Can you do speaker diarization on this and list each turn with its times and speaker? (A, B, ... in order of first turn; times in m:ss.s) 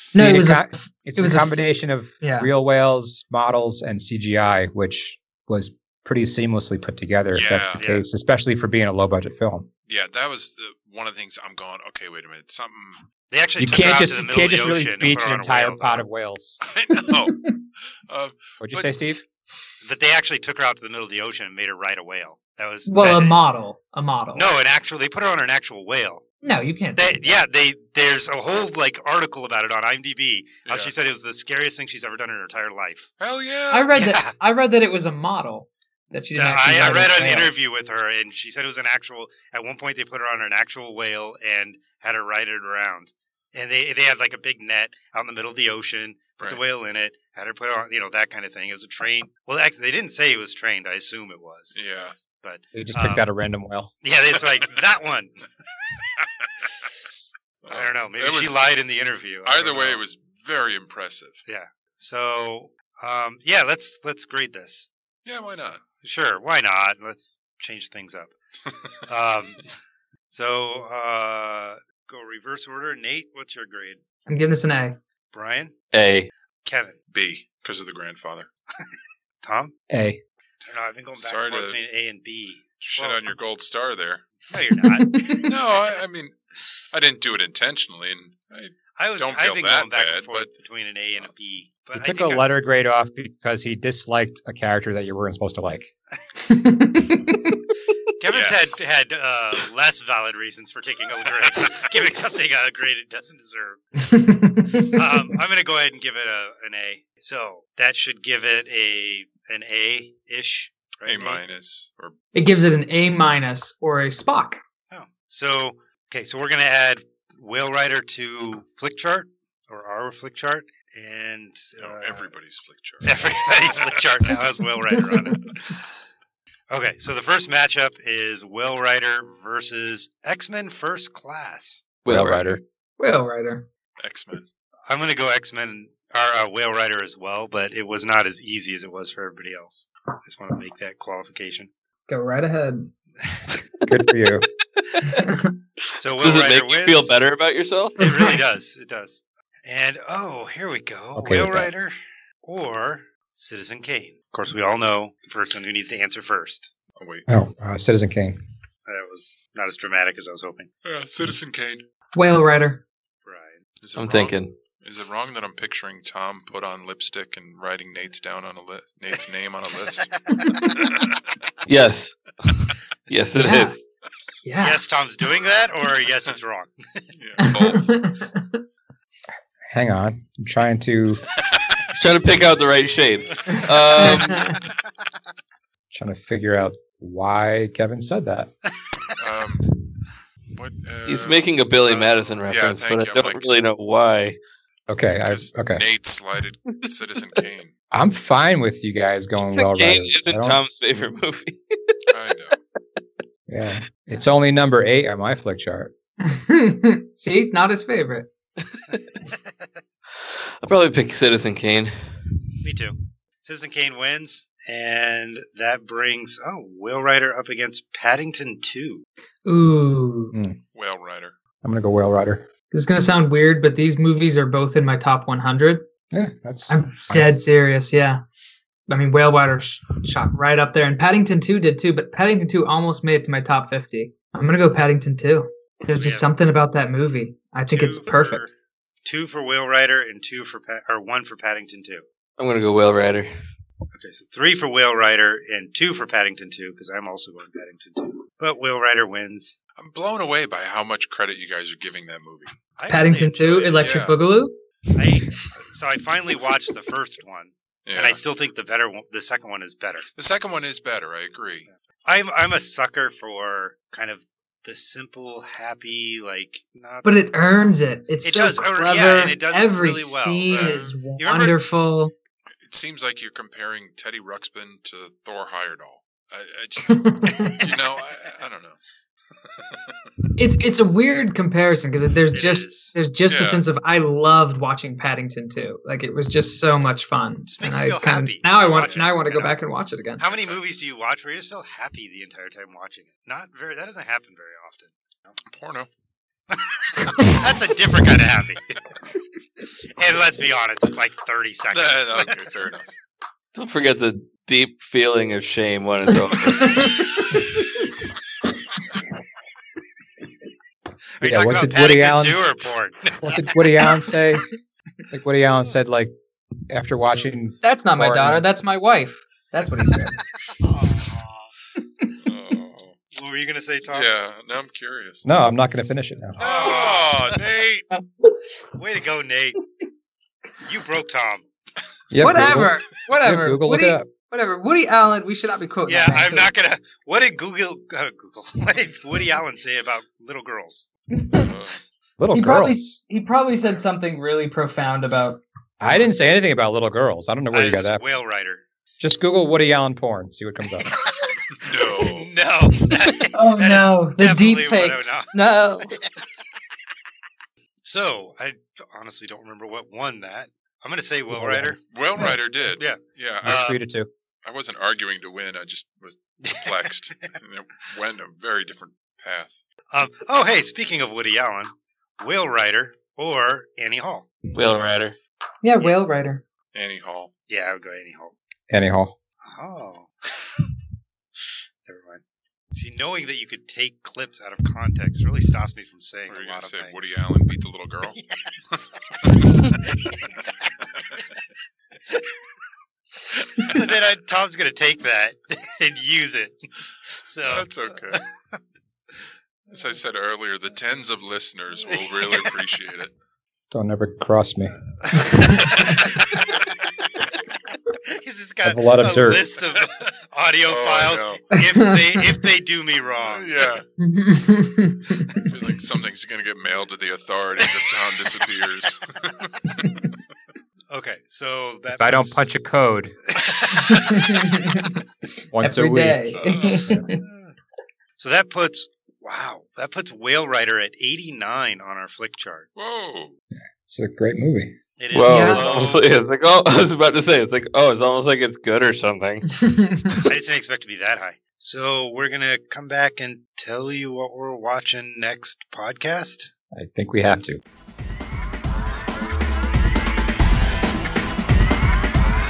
0:00.1-0:01.6 A
0:00.2-0:09.7 B
0:02.2-0:02.5 A
0:07.3-0:07.8 C
0:07.8-0:08.1 D
0:09.9-0:13.0 C
0:13.3-0:16.1 D
0:13.6-0:16.6 B
0:16.6-0:18.9 C
0:17.1-0:17.5 A
0:18.6-0:19.2 B
0:19.8-0:23.4 D
0:22.8-0:24.6 A
0:24.3-0:26.2 D
0:26.4-0:27.4 A
0:27.0-0:33.1 D
0:30.6-0:30.9 C
0:33.2-0:34.0 C
0:33.7-0:37.5 A
0:34.0-0:34.3 D
0:36.4-0:51.8 D
0:51.7-0:52.2 C
0:52.4-0:53.2 D
0:52.7-0:53.9 B
0:54.0-0:55.4 D
0:56.2-0:56.7 C
0:57.6-0:58.6 C
0:57.7-1:00.0 D
0:59.4-1:01.4 C
1:01.5-1:04.9 D
1:05.2-1:05.8 C
1:05.5-1:08.4 D
1:09.0-1:09.8 D
1:10.3-1:14.0 D
1:14.3-1:15.0 A
1:15.3-1:15.8 D
1:15.9-1:16.3 E
1:16.6-1:17.0 D
1:17.1-1:18.5 C
1:18.8-1:19.7 D
1:19.9-1:20.2 B
1:20.7-1:23.3 D
1:21.2-1:21.8 C
1:22.8-1:24.3 C
1:24.5-1:25.6 D
1:24.9-1:25.4 A
1:25.4-1:26.4 C
1:26.9-1:30.5 C
1:29.0-1:32.5 D
1:31.9-1:35.9 B
1:36.5-1:37.6 A
1:38.2-1:43.9 D
1:38.3-1:38.8 C
1:41.5-1:42.0 C
1:44.0-1:45.0 A
1:44.8-1:51.4 D
1:51.0-1:52.1 C
1:52.3-1:54.6 A
1:54.9-2:02.3 D
2:01.8-2:04.4 C
2:03.0-2:06.0 D
2:06.7-2:11.9 D
2:12.0-2:12.6 E
2:12.1-2:12.6 B
2:13.0-2:13.7 A
2:14.0-2:14.5 C
2:14.9-2:21.7 D
2:22.1-2:22.9 A
2:23.9-2:24.5 B
2:24.8-2:25.2 E
2:25.1-2:25.4 A
2:26.0-2:27.2 D
2:26.2-2:28.2 E
2:28.0-2:36.7 D
2:28.0-2:28.3 A
2:31.2-2:31.7 B
2:37.0-2:37.2 C
2:37.3-2:38.4 B
2:38.9-2:40.7 D
2:40.8-2:41.8 C
2:42.2-2:42.8 A
2:43.2-2:43.6 D
2:43.8-2:51.2 C
2:44.0-2:44.5 E
2:49.9-2:50.5 D
2:51.7-2:53.8 E
2:53.4-2:53.8 A
2:54.4-2:54.8 A
2:54.6-2:57.5 D
2:57.1-2:58.0 C
2:57.4-2:58.6 A
2:59.7-3:01.2 B
3:02.0-3:04.5 E
3:03.5-3:04.6 A
3:04.0-3:04.4 D
3:05.9-3:08.5 B
3:09.2-3:09.6 C
3:10.5-3:13.4 C
3:11.1-3:14.4 E
3:14.9-3:15.8 B
3:15.3-3:17.7 C
3:16.7-3:17.4 E
3:17.9-3:20.6 B
3:19.4-3:22.1 E
3:22.1-3:22.6 C
3:23.5-3:25.9 B
3:26.2-3:28.3 A
3:28.9-3:29.7 D
3:30.6-3:32.4 E
3:32.6-3:39.0 D
3:39.4-3:40.4 A
3:40.3-3:40.6 B
3:40.7-3:41.4 C
3:41.6-3:42.5 B
3:42.7-3:45.8 A
3:46.1-3:47.3 B
3:46.7-3:48.2 A
3:48.9-3:58.5 A
3:56.0-3:56.3 D
3:57.7-3:58.5 D
3:59.0-4:02.0 D
4:02.4-4:03.3 E
4:03.9-4:09.6 D
4:09.8-4:12.6 C
4:12.8-4:14.1 D
4:12.9-4:14.5 A
4:13.8-4:14.2 C
4:15.0-4:20.1 D
4:17.8-4:18.2 C
4:20.1-4:21.7 C
4:21.7-4:27.2 D
4:27.0-4:32.1 A
4:28.2-4:31.6 D
4:30.5-4:30.9 C
4:32.6-4:38.8 C
4:36.9-4:37.5 A
4:37.4-4:37.8 D
4:39.4-4:40.3 C
4:40.4-4:50.2 A
4:42.3-4:43.0 D
4:43.3-4:43.6 C
4:47.5-4:49.6 D
4:48.7-4:49.1 C
4:50.2-4:55.4 D
4:50.3-4:50.6 C
4:55.5-4:55.9 C
4:56.5-4:58.8 D
4:59.9-5:02.5 D
5:01.7-5:02.9 C
5:03.5-5:07.1 E
5:06.5-5:07.7 A
5:11.2-5:13.6 D
5:11.2-5:12.4 B
5:13.2-5:14.5 B
5:15.1-5:16.1 B
5:16.7-5:18.4 B
5:17.6-5:20.2 A
5:20.5-5:21.5 D
5:22.2-5:23.0 C
5:23.1-5:24.1 D
5:23.9-5:25.3 C
5:25.2-5:26.4 B
5:26.4-5:27.9 C
5:26.4-5:27.4 D
5:27.9-5:28.4 A
5:28.8-5:29.6 D
5:30.6-5:31.5 D
5:32.1-5:34.1 B
5:32.2-5:36.5 A
5:35.8-5:40.9 D
5:41.2-5:41.5 A
5:41.3-5:41.8 C
5:42.2-5:42.8 B
5:42.3-5:45.4 A
5:45.8-5:48.0 B
5:47.5-5:48.6 D
5:49.0-5:50.9 B
5:51.5-5:52.3 C
5:51.8-5:55.4 D
5:53.3-5:56.0 A
5:57.8-6:03.8 D
6:01.3-6:01.8 B
6:01.8-6:03.8 C
6:03.4-6:04.1 B
6:04.4-6:09.6 C
6:06.4-6:07.3 D
6:09.9-6:14.3 D
6:14.5-6:15.2 E
6:15.6-6:16.4 A
6:16.7-6:17.3 C
6:17.5-6:18.3 D
6:18.7-6:19.2 B
6:19.4-6:20.6 D
6:21.4-6:22.2 D
6:22.8-6:27.2 D
6:26.3-6:29.7 C
6:28.1-6:28.9 D
6:29.7-6:30.7 D
6:33.6-6:33.9 C
6:33.6-6:38.6 D
6:37.4-6:38.2 C
6:39.7-6:43.1 C
6:41.9-6:42.5 D
6:43.7-6:44.8 B
6:45.0-6:46.2 D
6:45.5-6:46.6 C
6:48.1-6:53.6 D
6:48.6-6:49.4 B
6:50.7-6:51.6 C
6:51.8-6:52.2 A
6:53.2-6:53.9 C
6:54.0-6:55.5 A
6:55.4-7:00.1 C
7:00.9-7:02.6 D
7:01.9-7:03.2 B
7:03.3-7:04.3 D
7:03.7-7:05.0 A
7:05.5-7:07.0 B
7:05.6-7:07.2 A
7:06.4-7:06.9 C
7:07.2-7:07.5 D
7:08.2-7:12.7 D
7:12.8-7:13.4 C
7:13.8-7:14.8 B
7:15.0-7:16.1 D
7:15.1-7:19.5 E
7:15.3-7:15.6 A
7:19.5-7:20.3 A
7:20.2-7:26.5 D
7:26.7-7:27.6 B